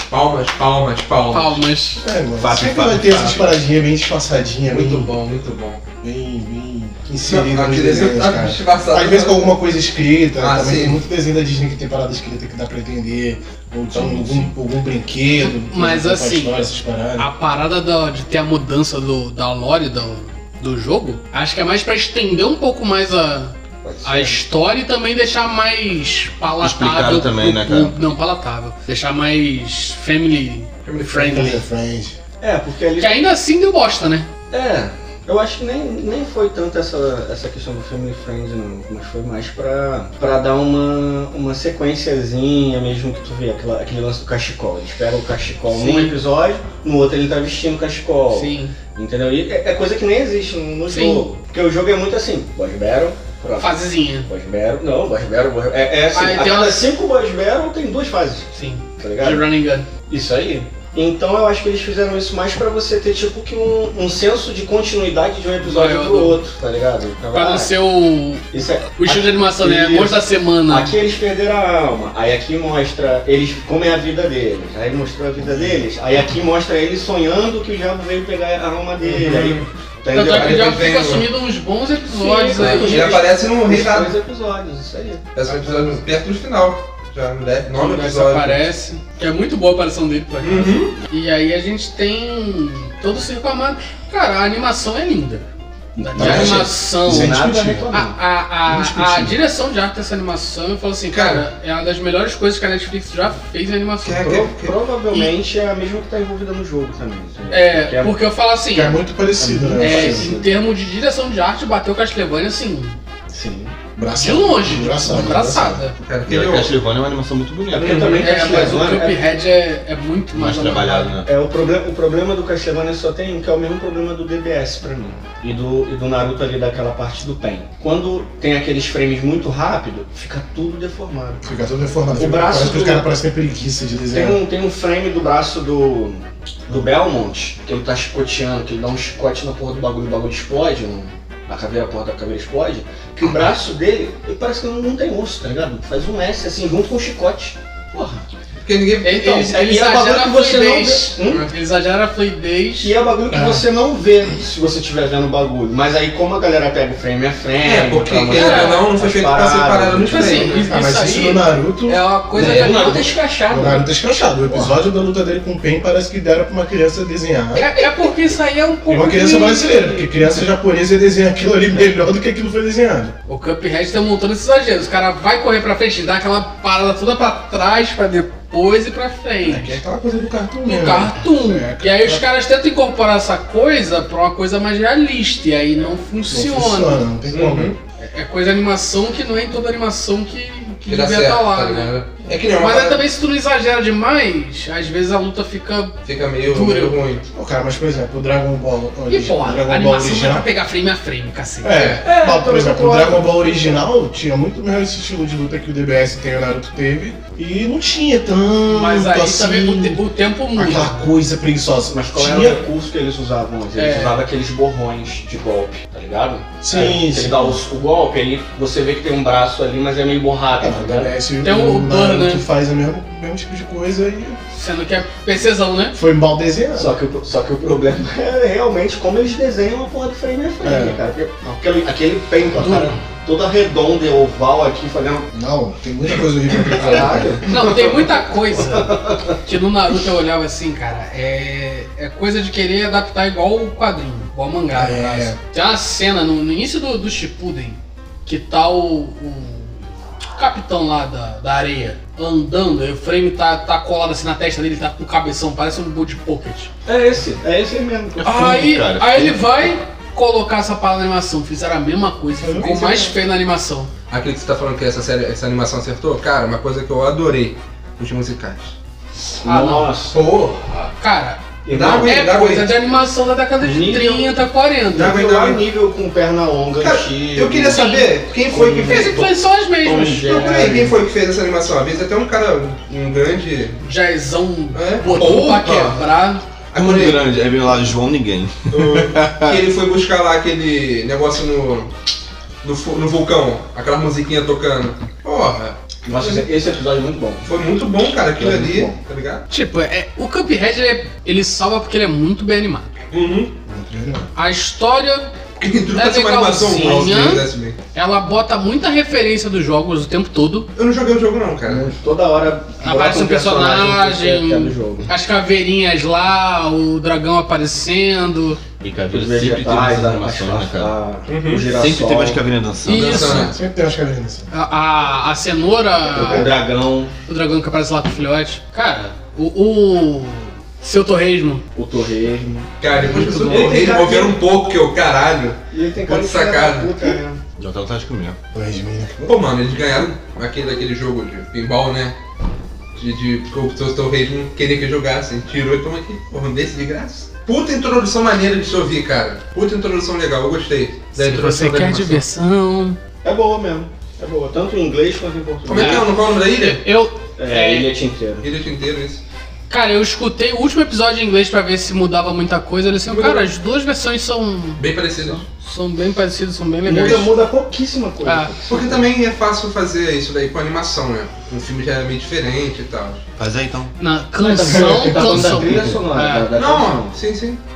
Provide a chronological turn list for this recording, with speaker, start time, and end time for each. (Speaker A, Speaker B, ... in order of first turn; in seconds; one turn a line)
Speaker A: 0.1-1.6
Speaker B: 1.3-2.0
Speaker C: 2.0-5.1
Speaker D: 2.4-3.1
Speaker A: 2.5-3.4
Speaker A: 4.7-5.8
Speaker C: 6.0-17.3
Speaker A: 7.2-9.6
Speaker A: 10.4-11.0
Speaker D: 13.9-14.5
Speaker B: 15.4-16.6
Speaker B: 17.2-31.6
Speaker E: 23.8-24.4
Speaker D: 26.6-27.9
Speaker A: 30.9-31.4
Speaker C: 31.1-32.2
Speaker E: 32.4-33.2
Speaker B: 33.0-34.3
Speaker E: 34.5-58.5
Speaker B: 45.7-46.2
Speaker B: 48.3-48.7
Speaker B: 50.9-51.2
Speaker B: 53.6-54.3
Speaker B: 56.1-56.8
Speaker B: 58.5-59.9
Speaker E: 59.0-59.5
Speaker E: 60.1-67.8
Speaker B: 65.6-66.4
Speaker B: 67.3-70.9
Speaker E: 68.5-80.8
Speaker A: 79.1-81.3
Speaker B: 80.1-83.1
Speaker E: 82.1-86.0
Speaker A: 82.6-84.1
Speaker A: 85.3-88.7
Speaker B: 87.7-95.5
Speaker A: 90.4-90.9
Speaker B: 96.0-104.3
Speaker E: 96.0-98.2
Speaker C: 96.2-97.9
Speaker C: 98.7-99.4
Speaker A: 101.1-101.4
Speaker A: 104.0-104.7
Speaker E: 104.2-108.2
Speaker B: 107.5-109.0
Speaker C: 108.7-110.3
Speaker E: 109.4-110.5
Speaker B: 109.8-113.0
Speaker E: 113.3-113.8
Speaker C: 114.0-115.8
Speaker B: 114.1-115.9
Speaker A: 116.0-116.7
Speaker D: 116.2-118.2
Speaker E: 117.7-119.2
Speaker A: 117.7-118.6
Speaker B: 118.2-121.2
Speaker D: 120.3-121.3
Speaker E: 121.2-131.4
Speaker C: 131.4-134.4
Speaker E: 132.2-133.1
Speaker E: 134.1-148.2
Speaker A: 148.6-149.2
Speaker B: 149.0-152.9
Speaker E: 149.1-151.5
Speaker E: 152.8-160.7
Speaker C: 153.3-153.6
Speaker A: 157.6-161.0
Speaker B: 158.3-158.8
Speaker B: 160.1-163.1
Speaker C: 160.7-162.0
Speaker E: 162.3-163.8
Speaker A: 162.4-163.1
Speaker C: 163.5-167.7
Speaker B: 167.5-170.1
Speaker C: 168.9-173.1
Speaker B: 173.3-179.8
Speaker C: 179.4-182.2
Speaker B: 180.7-187.0
Speaker C: 186.3-187.7
Speaker A: 187.3-187.8
Speaker B: 188.0-191.9
Speaker A: 190.9-193.0
Speaker B: 192.6-195.9
Speaker A: 196.0-197.2
Speaker B: 196.5-197.0
Speaker C: 197.3-200.4
Speaker B: 199.1-202.0
Speaker C: 201.6-210.0
Speaker A: 201.7-202.0
Speaker E: 202.0-203.8
Speaker B: 208.7-211.1
Speaker C: 210.6-212.6
Speaker E: 211.9-221.1
Speaker B: 213.8-214.2
Speaker C: 216.6-217.6
Speaker C: 220.6-224.4
Speaker B: 221.4-222.4
Speaker B: 224.5-226.0
Speaker C: 225.9-227.0
Speaker E: 226.7-235.3
Speaker C: 230.6-231.0
Speaker C: 232.6-232.9
Speaker C: 235.3-237.4
Speaker E: 236.6-239.4
Speaker B: 237.5-249.8
Speaker C: 244.7-245.4
Speaker B: 250.3-256.7
Speaker E: 256.9-258.3
Speaker D: 258.2-259.5
Speaker B: 258.2-263.9
Speaker C: 262.4-262.7
Speaker A: 262.6-263.1
Speaker A: 264.1-268.7
Speaker E: 269.4-270.2
Speaker B: 269.4-269.9
Speaker B: 270.6-275.1
Speaker E: 271.6-272.2
Speaker A: 271.7-272.7
Speaker E: 273.6-274.4
Speaker E: 274.9-280.9
Speaker A: 274.9-275.6
Speaker A: 276.8-279.2
Speaker B: 277.7-278.1
Speaker B: 278.8-280.6
Speaker A: 280.2-283.8
Speaker B: 283.8-286.4
Speaker A: 284.7-286.0
Speaker A: 286.7-287.2
Speaker D: 286.7-289.6
Speaker A: 288.7-291.9
Speaker A: 292.6-296.4
Speaker E: 296.0-297.5
Speaker A: 297.4-299.4
Speaker E: 298.4-298.9
Speaker B: 299.5-302.9
Speaker A: 303.1-303.5
Speaker C: 303.6-304.3
Speaker B: 304.4-305.3
Speaker A: 305.6-307.8
Speaker B: 305.9-310.7
Speaker E: 306.6-307.4
Speaker A: 310.8-311.9
Speaker E: 311.7-315.1
Speaker B: 312.8-318.6
Speaker D: 318.8-321.0
Speaker E: 319.1-322.4
Speaker A: 321.3-321.7
Speaker D: 321.7-323.5
Speaker B: 322.8-323.5
Speaker A: 322.9-323.5
Speaker C: 323.3-324.5
Speaker B: 324.5-326.5
Speaker E: 326.1-327.1
Speaker B: 327.2-331.6
Speaker E: 331.7-332.7
Speaker A: 332.8-337.1
Speaker B: 333.0-333.9
Speaker E: 333.4-334.4
Speaker E: 335.7-337.4
Speaker D: 337.6-338.4
Speaker C: 338.5-339.4
Speaker A: 339.2-342.2
Speaker A: 342.9-352.2
Speaker B: 351.1-353.0
Speaker E: 353.2-356.1
Speaker A: 355.6-356.8
Speaker B: 355.7-357.9
Speaker E: 357.4-358.5
Speaker A: 358.4-359.2
Speaker B: 359.7-364.8
Speaker A: 363.1-363.5
Speaker A: 364.8-365.4
Speaker B: 365.6-367.3
Speaker E: 366.9-369.1
Speaker A: 367.0-367.3
Speaker B: 368.2-368.5
Speaker A: 368.7-373.2
Speaker D: 373.4-373.9
Speaker B: 374.0-376.5
Speaker E: 374.4-377.1
Speaker A: 376.5-377.6